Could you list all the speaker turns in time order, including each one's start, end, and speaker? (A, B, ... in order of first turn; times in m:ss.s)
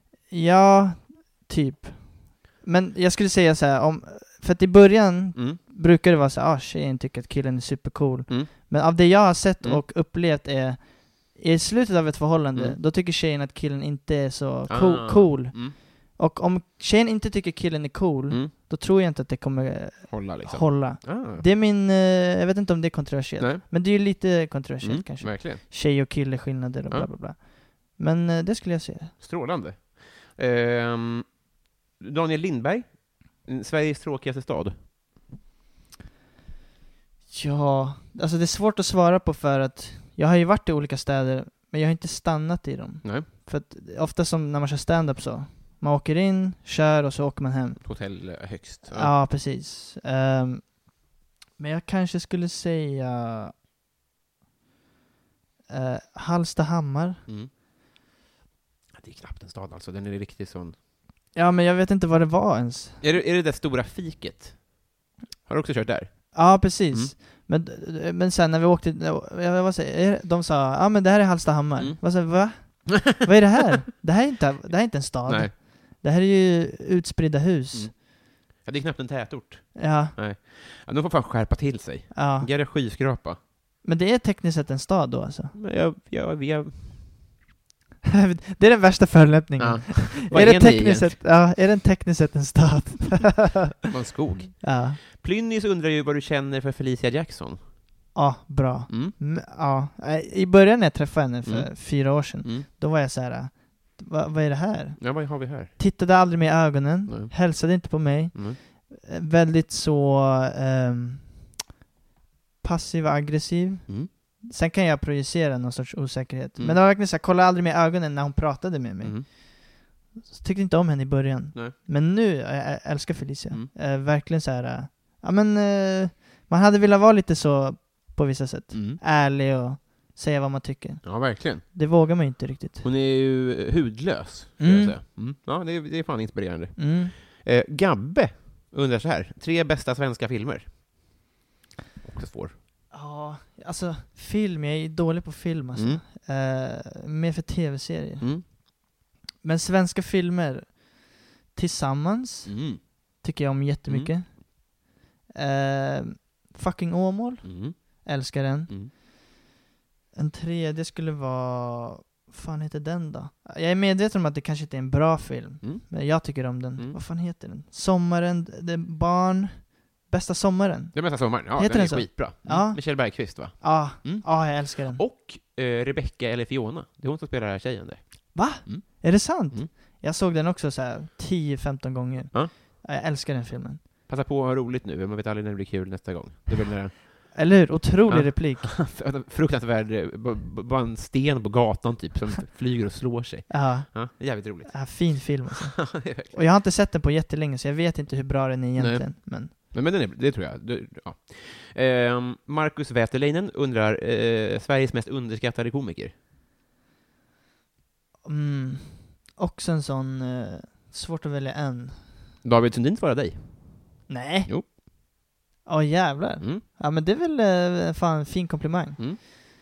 0:00.3-0:29.2 A
0:05.4-0:05.6 B
0:08.3-0:08.7 B
0:14.7-0:15.8 B
0:20.1-0:21.4 B
0:23.4-0:24.1 B
0:24.8-0:26.1 B
0:29.2-0:34.8 B
0:37.3-0:51.0 A
0:43.0-0:43.3 B
0:47.8-0:49.1 B
0:51.6-0:53.5 A
0:55.7-0:57.2 A
0:58.9-1:00.8 B
1:01.3-1:03.0 A
1:03.0-1:04.8 B
1:05.5-1:07.1 B
1:06.3-1:17.9 A
1:11.8-1:12.9 B
1:15.2-1:15.5 B
1:17.7-1:23.4 B
1:19.8-1:20.2 A
1:22.1-1:22.5 A
1:23.8-1:25.6 A
1:25.5-1:27.2 B
1:28.1-1:33.7 A
1:29.6-1:31.4 B
1:33.8-1:38.0 B
1:34.6-1:35.0 A
1:38.2-1:51.5 A
1:38.9-1:39.2 B
1:41.4-1:42.7 B
1:45.0-1:45.8 B
1:47.1-1:48.6 B
1:52.6-2:12.8 A
1:59.0-1:59.3 B
2:08.7-2:09.0 B
2:11.0-2:11.6 B
2:12.8-2:20.8 B
2:14.6-2:15.0 A
2:16.8-2:17.1 A
2:22.0-2:22.6 B
2:22.9-2:28.6 A
2:25.8-2:26.0 B
2:28.2-2:28.5 B
2:29.4-2:34.8 A
2:32.5-2:32.8 B
2:33.9-2:34.2 B
2:35.4-2:39.0 A
2:37.4-2:38.9 B
2:40.2-2:55.0 A
2:45.6-2:47.0 B
2:50.9-2:59.7 B
2:58.3-3:03.8 A
3:04.1-3:07.5 B
3:07.3-3:08.8 A
3:08.1-3:16.4 B
3:13.5-3:19.5 A
3:18.8-3:26.1 B
3:28.2-3:32.0 A
3:32.4-3:34.7 B
3:34.1-3:34.8 A
3:35.6-3:39.4 A